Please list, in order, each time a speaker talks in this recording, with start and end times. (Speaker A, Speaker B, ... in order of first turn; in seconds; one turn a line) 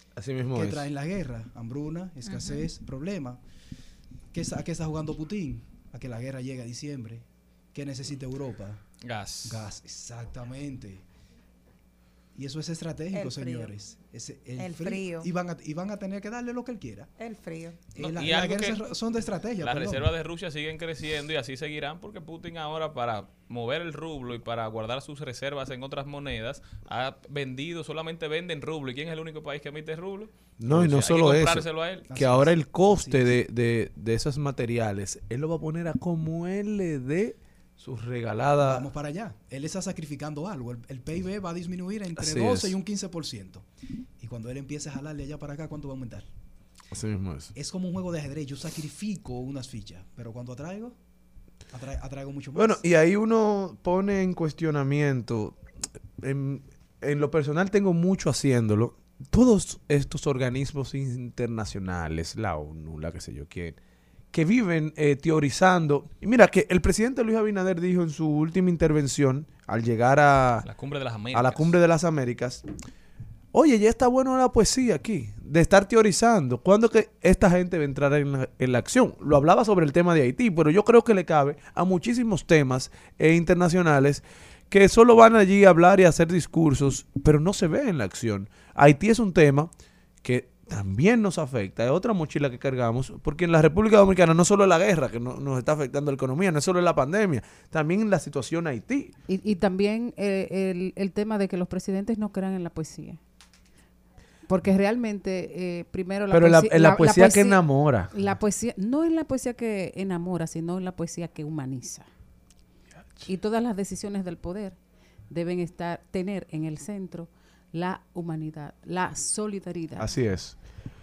Speaker A: 0.2-0.9
Speaker B: 0.5-3.4
Speaker C: 2.2-2.7
Speaker B: 4.3-8.8
Speaker D: 9.0-9.7
Speaker B: 9.4-11.0
Speaker B: 12.3-17.1
Speaker C: 13.1-13.7
Speaker C: 14.6-15.3
Speaker C: 17.2-17.8
Speaker B: 17.9-20.1
Speaker D: 18.0-18.8
Speaker D: 19.6-32.1
Speaker A: 30.6-38.9
Speaker B: 32.1-33.4
Speaker B: 38.6-43.6
Speaker A: 42.1-42.7
Speaker B: 44.2-46.3
Speaker A: 46.9-47.5
Speaker B: 47.5-51.0
Speaker B: 51.7-52.8
Speaker A: 52.5-55.6
Speaker A: 56.2-63.8
Speaker A: 64.3-70.7
Speaker D: 70.6-71.8
Speaker A: 71.3-72.6
Speaker A: 73.5-89.7
Speaker A: 90.2-99.1
Speaker E: 99.3-103.2
Speaker E: 104.5-112.1
Speaker A: 106.3-108.1
Speaker E: 113.2-114.8
Speaker E: 115.3-120.1
Speaker A: 120.0-120.5